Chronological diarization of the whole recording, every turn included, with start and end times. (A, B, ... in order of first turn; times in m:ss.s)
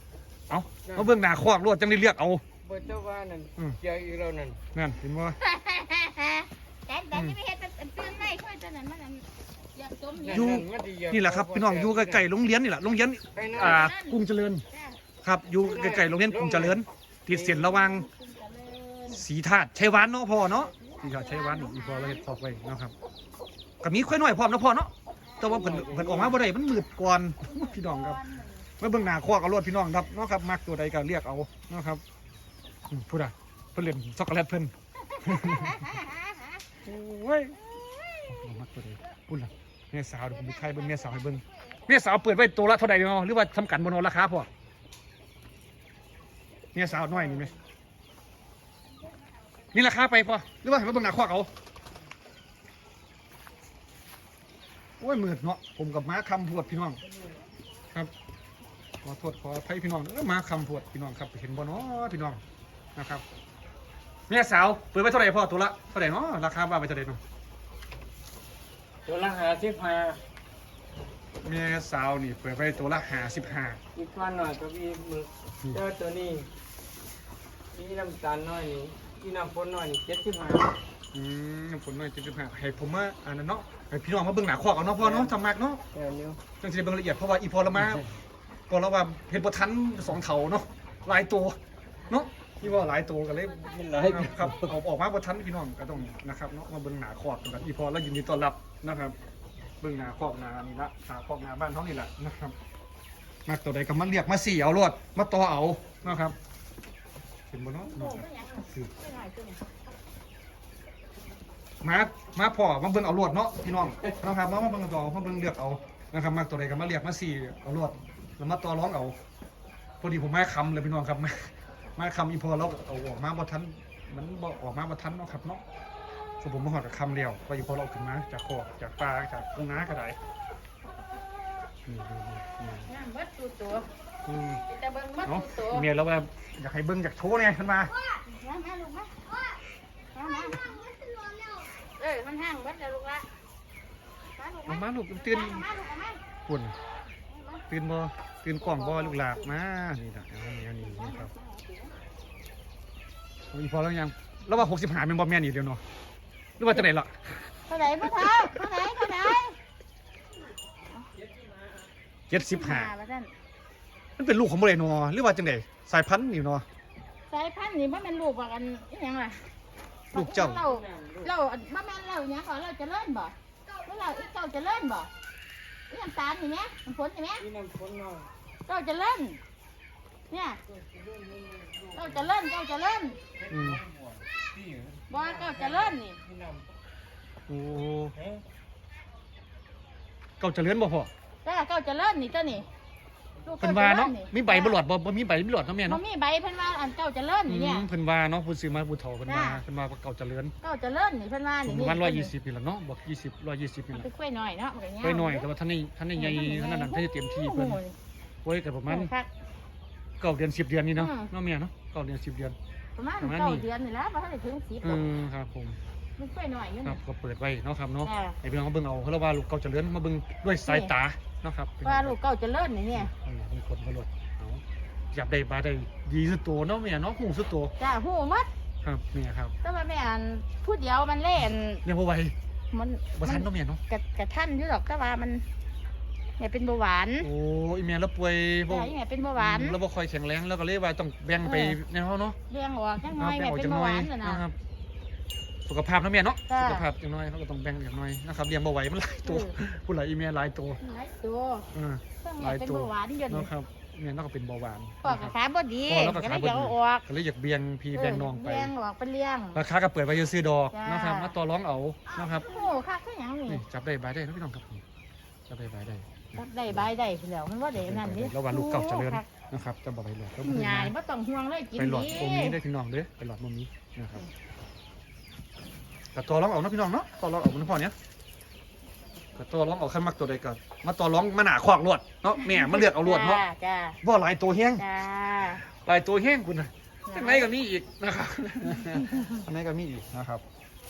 0:00.5-0:02.4 A
0:00.8-0:01.1 B
0:02.6-0:04.6 B
0:04.7-0:05.4 A
0:05.4-0:10.6 C
0:10.2-0:12.3 B
0:10.3-0:14.6 A
0:13.3-0:13.9 B
0:13.5-0:14.2 C
0:14.7-0:15.0 C
0:15.2-0:18.1 A
0:15.6-0:17.7 B
0:17.4-0:19.2 C
0:19.1-0:22.9 A
0:20.5-0:22.2 C
0:23.8-0:28.2 A
0:25.4-0:26.4 B
0:27.4-0:28.7 C
0:28.8-0:32.0 A
0:32.9-0:35.9 A
0:35.1-0:36.6 C
0:36.8-0:37.6 A
0:37.7-0:38.2 C
0:38.3-0:44.5 A
0:40.5-0:41.8 C
0:46.7-0:47.5 A
0:49.7-0:51.5 A
0:55.0-0:57.0 A
0:59.0-1:02.4 A
1:03.0-1:03.2 A
1:04.3-1:07.2 A
1:09.0-1:10.2 B
1:11.4-1:13.8 A
1:13.9-1:16.5 B
1:17.7-1:20.8 B
1:21.1-1:25.8 A
1:25.0-1:25.3 B
1:25.9-1:26.4 B
1:26.6-1:28.0 A
1:28.7-1:31.6 A
1:32.1-1:39.1 A
1:33.6-1:34.7 B
1:39.8-1:42.5 A
1:43.4-1:46.3 A
1:47.5-1:48.9 A
1:47.9-1:49.6 C
1:51.8-1:59.1 A
2:00.0-2:05.6 A
2:06.4-2:10.2 A
2:11.8-2:12.9 A
2:12.8-2:13.9 C
2:14.2-2:14.6 A
2:14.6-2:15.9 C
2:15.2-2:17.9 A
2:18.1-2:19.3 C
2:20.1-2:20.8 C
2:21.8-2:23.2 C
2:24.4-2:26.2 C
2:24.7-2:25.6 A
2:26.4-2:26.8 A
2:27.3-2:27.6 C
2:27.7-2:31.3 A
2:28.6-2:29.5 C
2:30.8-2:31.9 C
2:33.5-2:35.8 A
2:36.6-2:37.5 A
2:37.7-2:39.6 C
2:38.0-2:39.2 A
2:41.2-2:41.9 B
2:42.3-2:42.9 A
2:42.4-2:43.3 C
2:44.2-2:46.6 A
2:47.3-2:49.4 C
2:50.1-2:50.6 A
2:50.1-2:55.1 C
2:50.4-2:51.3 B
2:55.9-2:57.4 C
2:57.4-2:58.3 B
2:58.7-2:59.4 C
3:00.3-3:00.6 C
3:00.7-3:02.3 B
3:01.9-3:03.2 C
3:03.4-3:06.7 B
3:03.5-3:03.8 A
3:05.1-3:06.2 C
3:07.5-3:08.1 A
3:08.2-3:08.4 B
3:10.4-3:11.1 A
3:11.4-3:12.7 C
3:13.4-3:14.8 C
3:13.6-3:16.0 A
3:15.8-3:17.9 C
3:17.5-3:20.5 A
3:19.3-3:19.6 C
3:20.6-3:22.3 C
3:21.6-3:24.1 A
3:23.9-3:25.5 C
3:25.0-3:27.8 A
3:26.1-3:27.9 C
3:28.4-3:29.1 A
3:28.9-3:29.3 C
3:30.2-3:32.6 A
3:31.0-3:31.3 C
3:33.0-3:35.0 C
3:33.2-3:33.6 A
3:34.8-3:35.8 A
3:36.2-3:37.0 C
3:36.8-3:42.2 A
3:38.0-3:38.4 C
3:40.6-3:40.9 C
3:41.8-3:43.1 C
3:42.9-3:47.7 A
3:47.8-3:48.5 C
3:48.8-3:49.5 A
3:49.6-3:51.8 C
3:51.8-3:52.3 A
3:52.7-3:55.4 C
3:53.2-3:53.8 A
3:56.4-3:57.3 C
3:57.2-4:02.4 A
3:58.7-3:59.8 C
4:01.4-4:01.8 C
4:02.5-4:04.4 C
4:03.1-4:04.6 A
4:05.6-4:10.8 A
4:06.5-4:06.9 C
4:09.2-4:09.5 C
4:10.8-4:11.7 C
4:11.7-4:15.3 A
4:12.2-4:13.5 C
4:15.0-4:17.0 C
4:15.9-4:18.7 A
4:17.9-4:19.6 C
4:19.5-4:22.5 A
4:20.7-4:21.3 C
4:22.2-4:23.6 C
4:23.5-4:24.8 A
4:25.5-4:26.8 A
4:26.3-4:29.2 C
4:27.8-4:30.9 A
4:30.4-4:32.6 C
4:31.8-4:34.2 A
4:36.1-4:37.9 A
4:39.3-4:43.4 A
4:42.3-4:44.0 C
4:44.0-4:44.8 A
4:44.8-4:45.6 C
4:45.6-4:50.4 A
4:47.1-4:47.5 C
4:49.1-4:49.4 C